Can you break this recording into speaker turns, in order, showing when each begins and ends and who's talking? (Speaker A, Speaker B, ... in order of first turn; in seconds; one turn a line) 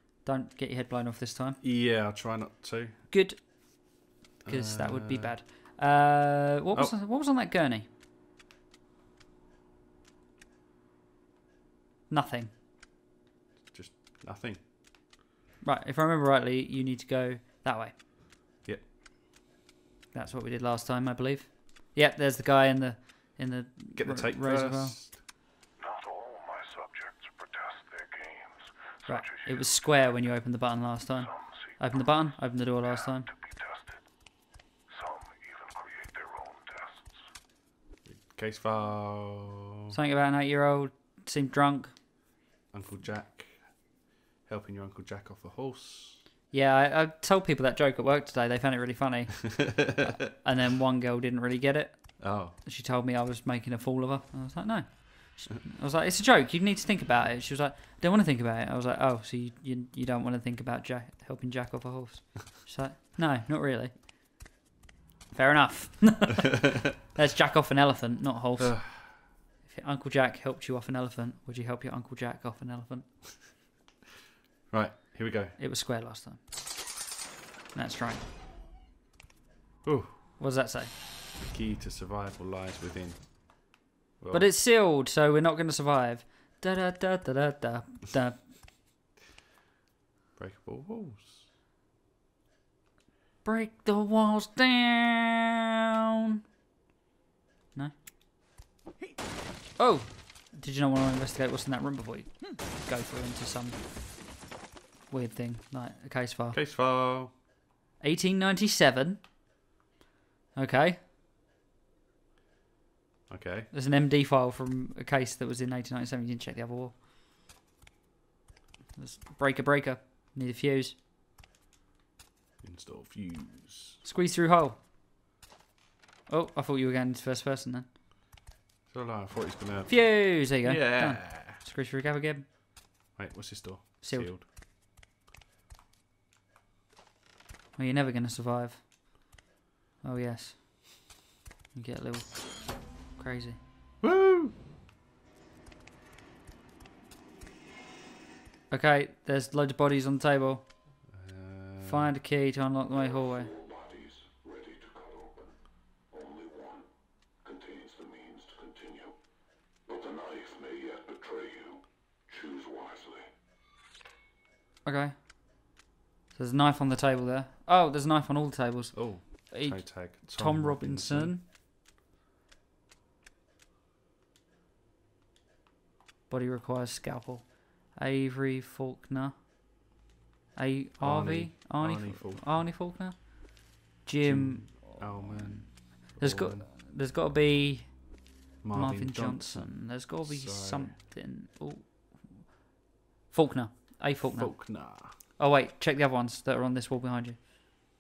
Speaker A: 0.2-1.6
Speaker B: 1.6-3.0
Speaker A: 3.1-7.8
Speaker B: 4.5-5.4
Speaker A: 12.1-12.5
Speaker B: 13.7-14.6
Speaker A: 15.6-17.9
Speaker A: 20.1-25.0
Speaker B: 24.0-25.2
Speaker C: 25.8-28.5
Speaker A: 29.1-33.3
Speaker C: 35.0-37.0
Speaker B: 38.1-40.0
Speaker A: 39.9-42.0
Speaker B: 42.7-43.7
Speaker B: 44.4-46.2
Speaker A: 46.5-64.0
Speaker B: 52.2-52.6
Speaker A: 65.3-68.8
Speaker B: 68.6-69.2
Speaker A: 69.6-73.2
Speaker B: 74.7-75.6
Speaker A: 75.6-76.4
Speaker A: 77.7-78.2
Speaker B: 79.8-80.2
Speaker A: 80.4-80.9
Speaker B: 81.5-83.3
Speaker B: 84.2-84.5
Speaker A: 84.3-88.5
Speaker B: 90.4-91.5
Speaker A: 93.4-95.5
Speaker A: 99.8-103.8
Speaker A: 105.1-106.6
Speaker B: 106.5-107.3
Speaker A: 108.0-109.2
Speaker A: 110.5-111.0
Speaker B: 113.3-113.7
Speaker A: 113.7-117.0
Speaker A: 119.0-121.0
Speaker B: 122.6-124.0
Speaker A: 124.0-124.8
Speaker A: 126.3-127.9
Speaker B: 128.9-131.6
Speaker A: 129.9-132.5
Speaker B: 133.2-134.4
Speaker A: 134.0-134.3
Speaker A: 137.8-138.9
Speaker A: 140.0-141.1
Speaker A: 141.7-143.6
Speaker B: 144.0-144.5
Speaker A: 148.7-150.7
Speaker B: 151.1-152.2
Speaker A: 151.8-153.6
Speaker C: 153.6-155.3
Speaker C: 156.1-156.8
Speaker C: 157.5-159.1
Speaker C: 159.9-163.3
Speaker A: 164.8-165.2
Speaker A: 166.3-171.4
Speaker B: 168.9-171.4
Speaker A: 176.3-179.4
Speaker A: 180.6-188.2
Speaker B: 181.0-182.7
Speaker B: 184.2-186.7
Speaker B: 188.6-190.9
Speaker A: 188.7-192.6
Speaker A: 193.3-197.5
Speaker B: 194.3-195.2